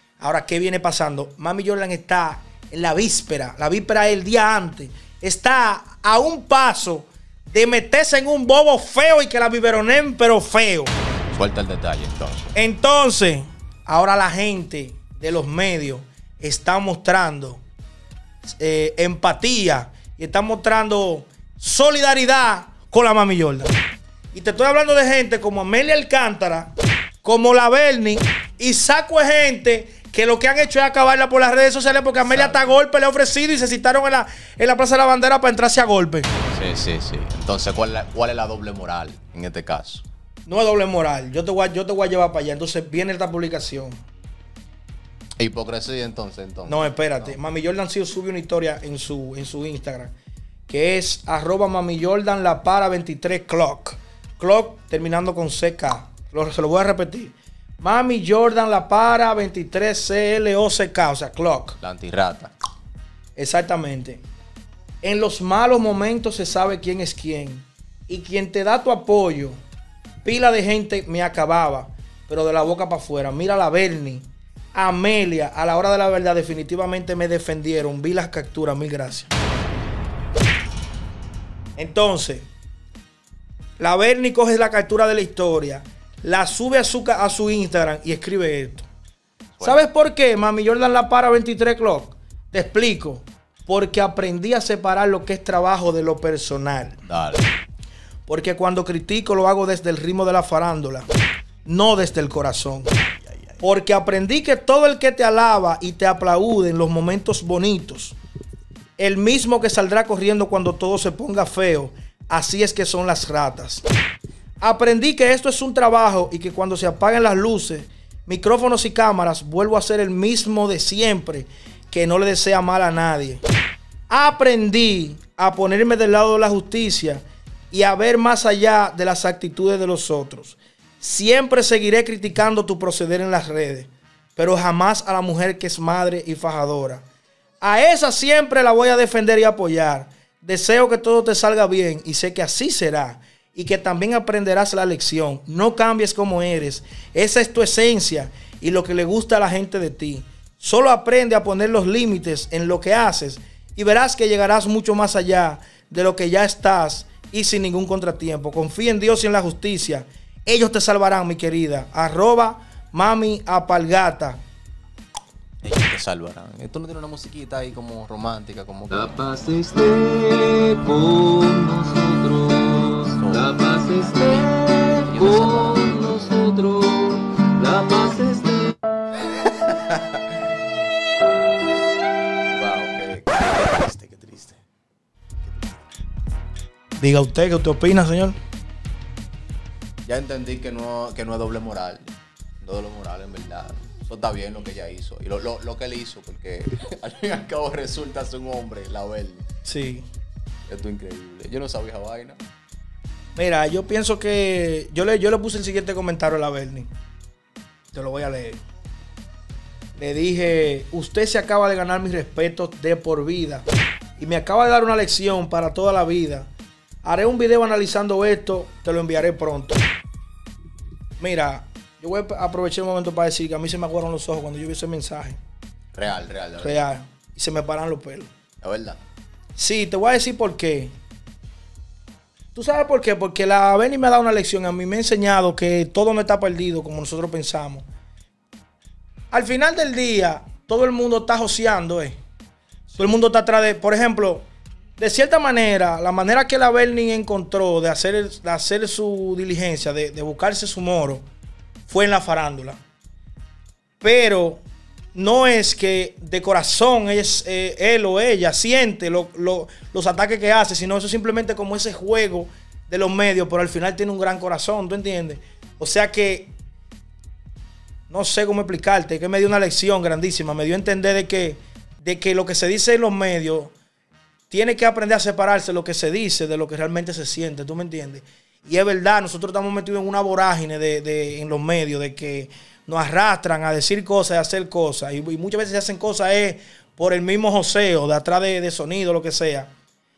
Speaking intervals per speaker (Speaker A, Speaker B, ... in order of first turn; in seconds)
Speaker A: 0.2-10.9, 12.6-17.6, 18.4-23.8, 24.3-26.7, 27.2-36.3, 40.5-44.0, 46.7-50.1, 50.7-61.8, 63.4-64.2, 65.0-69.6, 70.2-79.3, 81.8-82.5, 83.8-88.9, 89.6-97.1, 98.3-101.1, 101.7-103.0, 103.6-108.2, 109.0-113.8, 114.6-123.4, 124.1-137.0, 137.6-164.4, 187.0-188.4, 199.7-200.1, 203.4-206.9, 207.9-208.6, 210.0-213.7, 214.2-216.5, 217.0-219.9, 221.2-225.4, 226.6-228.3, 229.6-230.9, 232.6-237.8, 239.3-242.2, 243.0-244.5, 245.0-251.2, 251.9-252.8, 254.0-254.6, 255.1-266.5, 268.1-273.7, 274.5-289.7
Speaker B: 11.3-12.5, 32.2-32.8, 36.5-40.0, 45.4-47.4, 61.8-62.5, 97.1-97.5, 103.1-103.6, 165.6-169.2, 173.2-176.2, 179.7-179.9, 182.6-184.6, 190.1-199.4, 200.7-202.4, 225.9-226.8, 228.6-229.0, 242.9-243.1
Speaker C: 168.9-178.8